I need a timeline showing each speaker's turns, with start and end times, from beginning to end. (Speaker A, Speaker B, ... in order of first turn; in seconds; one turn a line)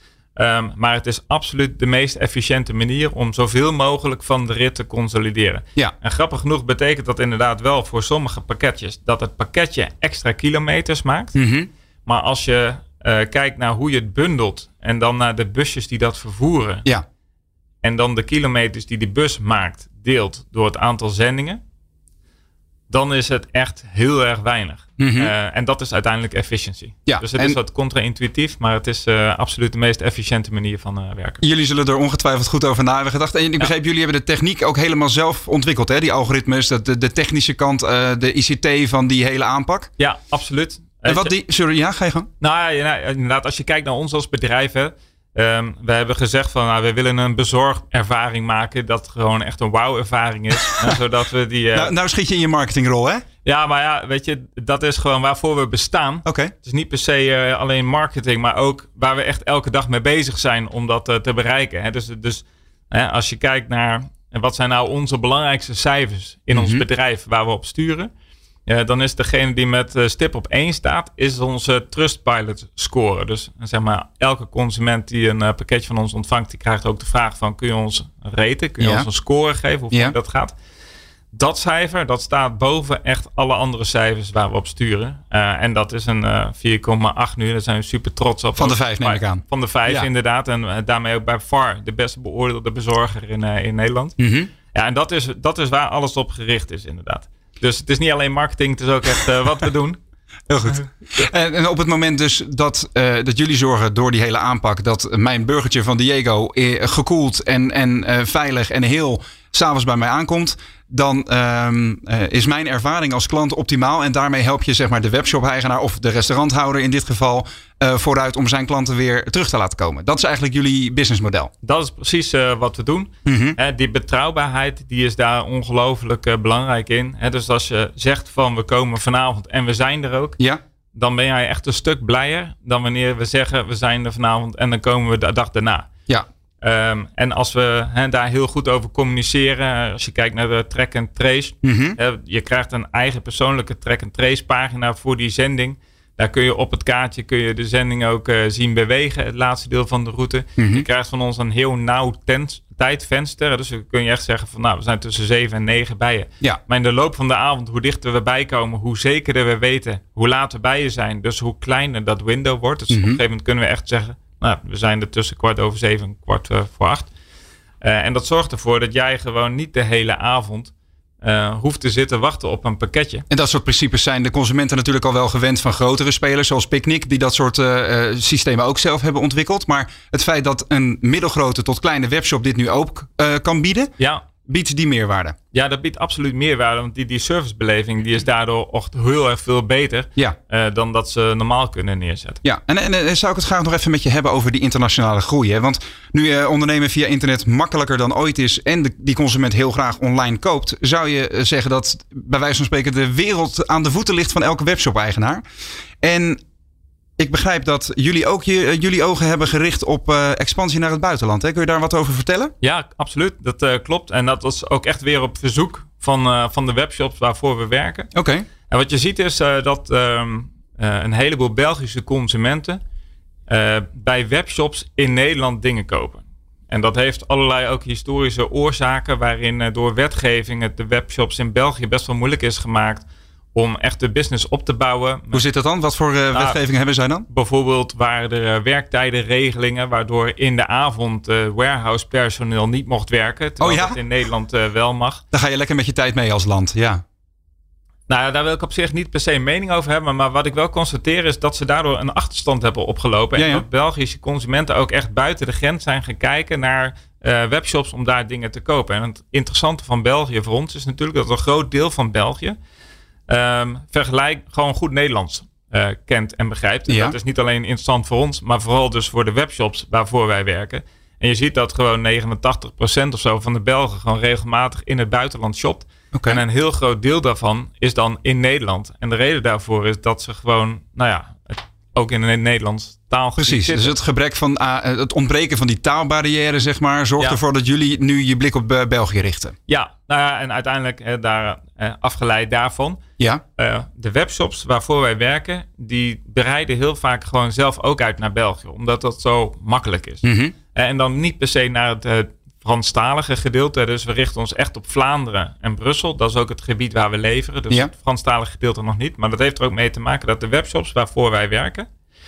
Speaker A: 0.4-11.4
Speaker B: 11.3-11.7
Speaker A: 12.1-16.9
Speaker A: 17.8-21.6
Speaker A: 22.9-31.4
Speaker B: 25.0-25.3
Speaker B: 27.1-27.6
Speaker B: 31.4-39.9
Speaker A: 40.0-41.3
Speaker B: 41.0-42.3
Speaker A: 42.4-51.9
Speaker B: 51.7-53.2
Speaker A: 53.5-68.1
Speaker B: 56.2-56.5
Speaker B: 66.5-66.8
Speaker A: 68.7-80.5
Speaker B: 78.8-79.1
Speaker A: 81.3-100.0
Speaker B: 88.6-90.1
Speaker B: 94.2-94.5
Speaker B: 100.5-121.5
Speaker A: 121.6-130.4
Speaker B: 123.2-123.6
Speaker A: 130.9-135.9
Speaker A: 136.6-167.1
Speaker B: 141.6-142.0
Speaker B: 150.6-150.8
Speaker B: 162.9-163.2
Speaker A: 167.8-173.2
Speaker B: 173.3-185.4
Speaker A: 184.0-184.2
Speaker A: 185.5-192.4
Speaker B: 192.4-205.4
Speaker B: 206.0-206.4
Speaker B: 207.2-212.5
Speaker A: 212.6-218.1
Speaker B: 218.1-218.5
Speaker A: 218.7-222.8
Speaker A: 223.5-235.4
Speaker B: 235.3-237.3
Speaker A: 236.3-236.6
Speaker A: 237.3-245.2
Speaker B: 243.6-244.0
Speaker B: 245.3-247.0
Speaker A: 248.1-262.6
Speaker B: 253.4-253.6
Speaker A: 263.3-283.9
Speaker B: 266.9-267.2
Speaker B: 276.1-276.4
Speaker B: 283.4-289.6
Speaker A: 289.7-293.0
Speaker A: 293.6-311.9
Speaker B: 300.2-300.5